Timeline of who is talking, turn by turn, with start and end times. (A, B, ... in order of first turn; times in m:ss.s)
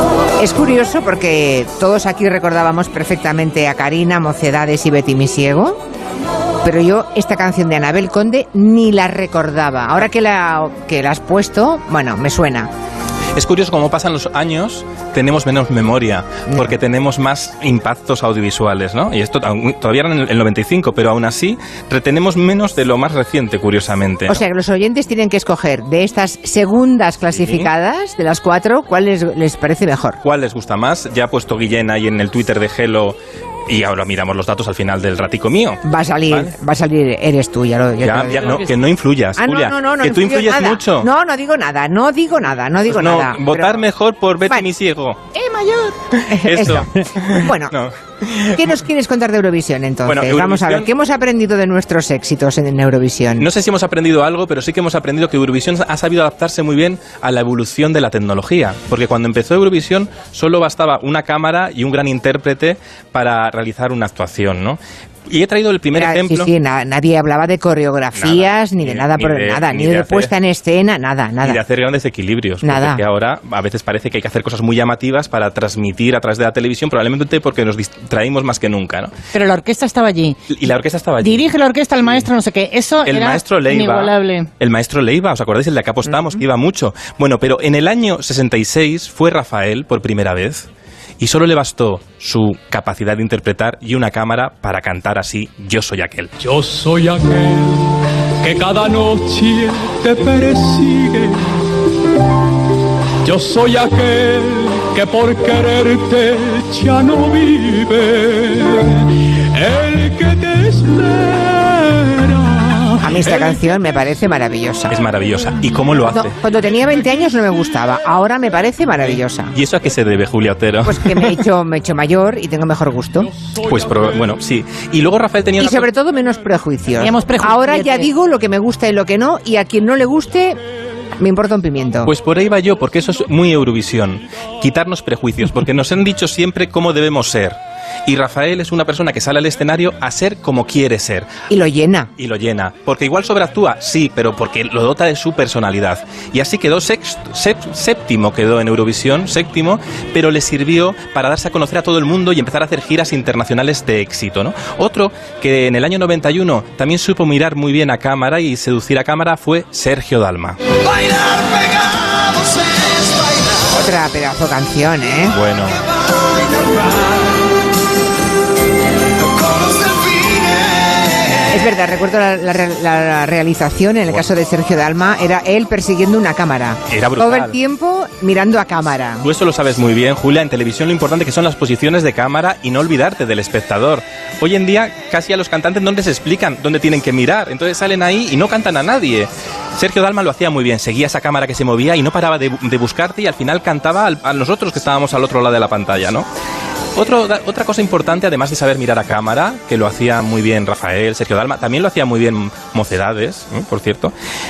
0:00.4-0:05.8 A
0:06.6-0:12.7 A
0:13.4-0:24.4 B
0:16.5-0:16.8 A
0:24.3-0:30.2 A
0:27.3-0:27.7 B
0:30.2-0:36.5 B
0:35.8-0:38.8 A
0:38.0-0:41.1 B
0:39.4-0:43.8 A
0:42.9-0:45.3 B
0:45.4-0:45.7 A
0:46.1-0:48.8 B
0:46.3-0:47.8 A
0:48.6-0:53.5 A
0:50.1-0:50.9 B
0:53.4-1:06.5 B
1:05.9-1:11.6 A
1:08.2-1:10.3 B
1:11.4-1:19.1 B
1:12.6-1:13.0 A
1:19.3-1:20.4 C
1:20.5-1:21.5 B
1:21.2-1:24.5 C
1:23.0-1:30.7 B
1:26.1-1:26.4 A
1:31.2-1:36.3 B
1:36.4-1:41.6 D
1:43.2-1:53.0 D
1:53.0-1:55.0 A
1:54.9-1:56.4 B
1:56.1-1:59.6 A
1:59.5-2:01.4 B
2:00.8-2:03.3 A
2:03.4-2:04.2 D
2:03.6-2:05.9 B
2:05.6-2:10.6 A
2:06.9-2:08.1 C
2:11.2-2:12.1 A
2:12.0-2:21.3 B
2:21.5-2:22.1 A
2:22.2-2:40.6 B
2:43.7-2:45.4 A
2:45.3-2:45.8 B
2:51.5-2:59.3 A
2:56.9-2:57.6 B
2:59.2-3:16.3 B
3:17.0-3:24.1 B